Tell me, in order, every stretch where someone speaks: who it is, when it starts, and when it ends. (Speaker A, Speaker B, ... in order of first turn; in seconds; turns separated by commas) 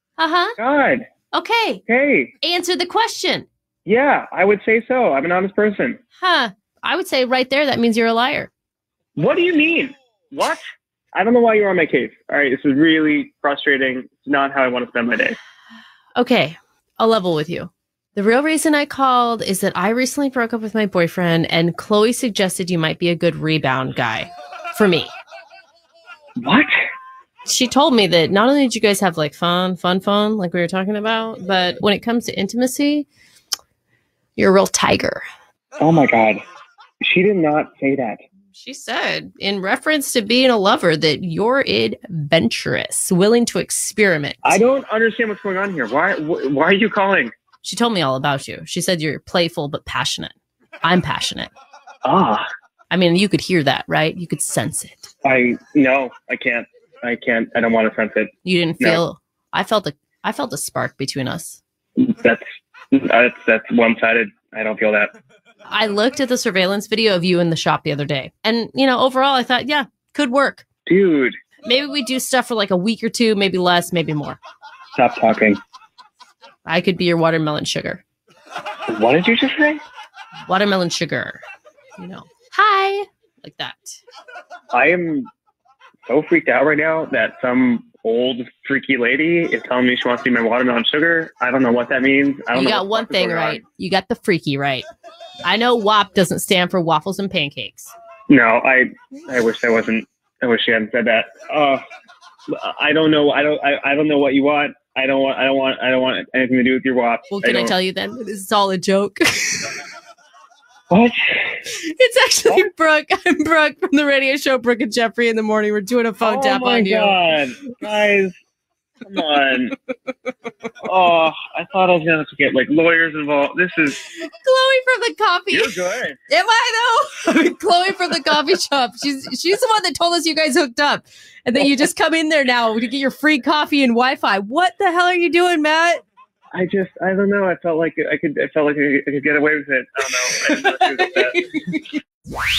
Speaker A: 0.2-0.5, Speaker B: 0.6-1.1, Speaker A: 1.3-1.8, Speaker B: 1.9-2.3, Speaker A: 2.4-3.5, Speaker B: 3.9-6.0, Speaker A: 6.2-8.5, Speaker B: 9.2-10.6, Speaker B: 11.1-15.4, Speaker A: 16.2-25.1, Speaker B: 26.4-26.7, Speaker A: 27.5-33.1, Speaker A: 34.4-35.2, Speaker B: 35.8-36.4, Speaker B: 37.0-38.2, Speaker A: 38.5-44.6, Speaker B: 44.4-47.3, Speaker A: 47.6-51.5, Speaker B: 52.0-52.5, Speaker A: 52.9-55.1, Speaker B: 55.2-59.0, Speaker A: 58.4-61.6, Speaker B: 62.0-65.1, Speaker A: 65.7-70.7, Speaker B: 70.9-71.4, Speaker A: 71.6-74.4, Speaker B: 75.0-75.6, Speaker A: 76.7-78.0, Speaker B: 78.9-79.8, Speaker A: 80.5-81.4, Speaker A: 82.0-84.0, Speaker B: 84.7-85.3, Speaker B: 86.1-93.6, Speaker A: 92.5-94.9, Speaker A: 95.4-97.9, Speaker B: 98.3-101.8, Speaker B: 102.5-107.7, Speaker A: 107.3-109.7, Speaker B: 110.9-111.6, Speaker A: 111.7-117.2, Speaker B: 116.2-118.4, Speaker B: 119.0-119.8, Speaker B: 120.8-124.0, Speaker A: 124.3-125.8, Speaker B: 125.5-126.2, Speaker A: 126.3-136.0, Speaker B: 136.5-141.5